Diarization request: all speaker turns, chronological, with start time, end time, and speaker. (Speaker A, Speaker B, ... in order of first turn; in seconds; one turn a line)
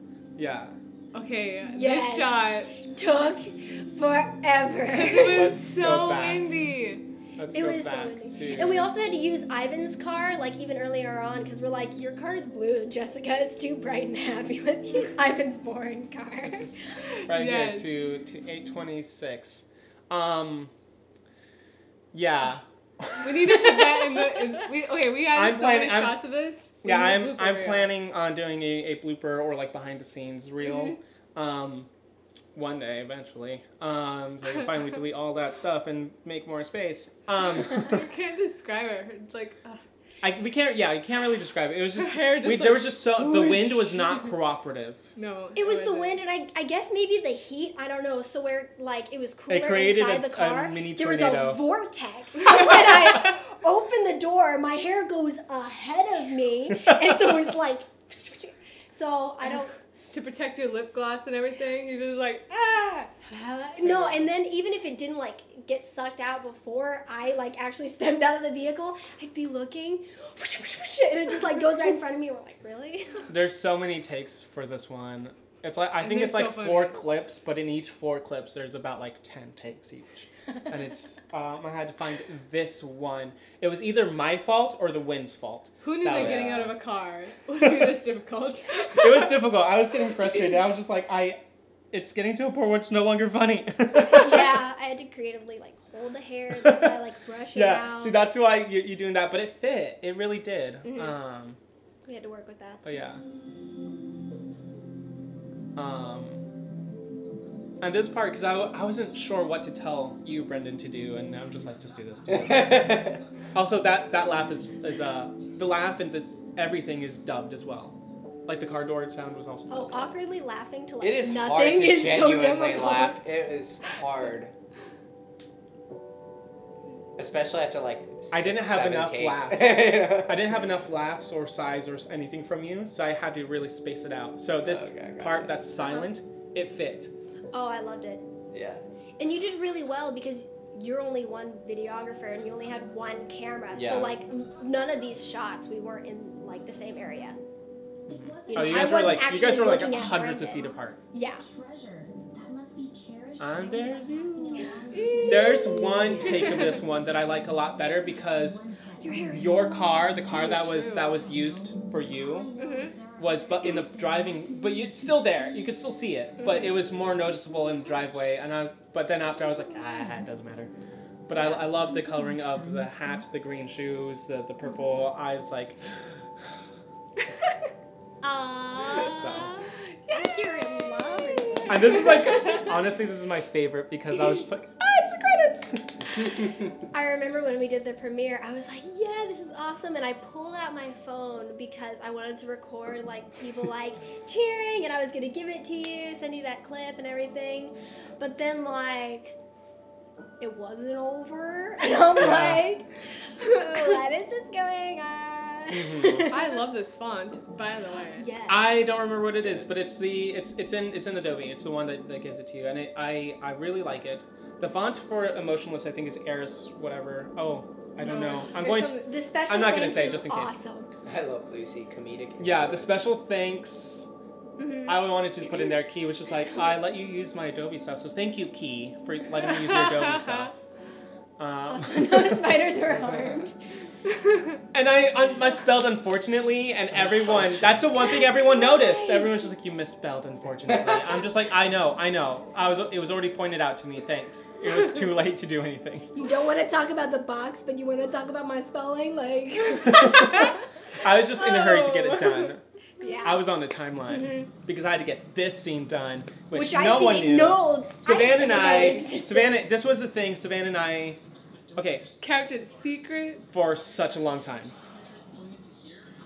Speaker A: 0.4-0.8
Speaker B: 1.1-2.7
Speaker C: 1.7-5.6
Speaker B: 4.9-7.0
Speaker A: 5.2-6.5
Speaker A: 7.4-8.9
Speaker C: 7.5-16.7
Speaker A: 16.4-16.8
Speaker B: 17.0-17.9
Speaker A: 17.3-20.7
Speaker A: 22.1-23.9
Speaker B: 23.2-27.9
Speaker A: 25.3-26.2
Speaker A: 26.8-31.9
Speaker A: 32.5-38.0
Speaker B: 37.8-39.8
Speaker A: 40.2-45.1
Speaker B: 42.0-44.3
Speaker B: 45.2-46.2
Speaker C: 45.6-59.7
Speaker A: 49.5-51.6
Speaker B: 60.1-63.7
Speaker C: 63.5-73.3
Speaker A: 63.8-64.3
Speaker A: 73.3-86.7
Speaker B: 76.0-77.0
Speaker B: 85.8-89.3
Speaker D: 86.1-86.7
Speaker A: 89.0-91.4
Speaker A: 91.9-94.5
Speaker C: 94.0-98.2
Speaker A: 96.6-97.0
Speaker A: 97.5-101.6
Speaker C: 100.8-101.2
Speaker C: 102.1-102.8
Speaker A: 102.8-103.2
Speaker A: 105.8-106.4
Speaker A: 107.8-120.2
Speaker D: 112.3-113.2
Speaker C: 119.7-123.2
Speaker D: 121.0-124.5
Speaker D: 127.2-130.5
Speaker A: 128.3-137.1
Speaker D: 134.6-135.6
Speaker C: 137.5-138.2
Speaker D: 138.5-138.8
Speaker C: 139.2-147.4
Speaker D: 143.7-144.2
Speaker E: 148.1-156.7
Speaker A: 148.1-151.0
Speaker C: 148.5-151.4
Speaker A: 153.4-154.7
Speaker C: 154.5-156.6
Speaker B: 154.9-155.2
Speaker A: 155.3-158.6
Speaker E: 157.7-165.8
Speaker C: 159.0-159.8
Speaker A: 159.4-162.5
Speaker B: 160.3-161.2
Speaker C: 162.6-162.9
Speaker A: 163.2-170.7
Speaker A: 171.3-176.2
Speaker E: 171.5-173.5
Speaker C: 178.2-182.7
Speaker A: 179.0-179.6
Speaker B: 180.1-182.6
Speaker A: 181.7-185.9
Speaker C: 186.9-199.4
Speaker C: 200.4-206.4
Speaker A: 202.2-202.7
Speaker A: 205.7-206.3
Speaker B: 206.3-208.3
Speaker C: 208.0-208.9
Speaker A: 208.5-220.6
Speaker D: 209.4-209.7
Speaker B: 218.0-219.1
Speaker C: 219.0-220.9
Speaker D: 221.0-223.2
Speaker A: 222.4-224.1
Speaker C: 224.6-225.0
Speaker A: 224.8-230.6
Speaker B: 229.5-230.5
Speaker A: 231.4-233.4
Speaker C: 231.7-233.6
Speaker B: 234.1-234.6
Speaker A: 234.7-246.1
Speaker D: 237.2-237.8
Speaker C: 238.0-239.4
Speaker D: 240.7-241.1
Speaker C: 246.1-250.6
Speaker A: 249.8-261.2
Speaker B: 251.4-252.3
Speaker C: 253.0-253.5
Speaker C: 254.1-254.5
Speaker C: 256.5-259.6
Speaker B: 258.7-259.0
Speaker A: 261.8-262.1
Speaker B: 262.2-263.4
Speaker A: 263.4-264.8
Speaker E: 265.3-265.9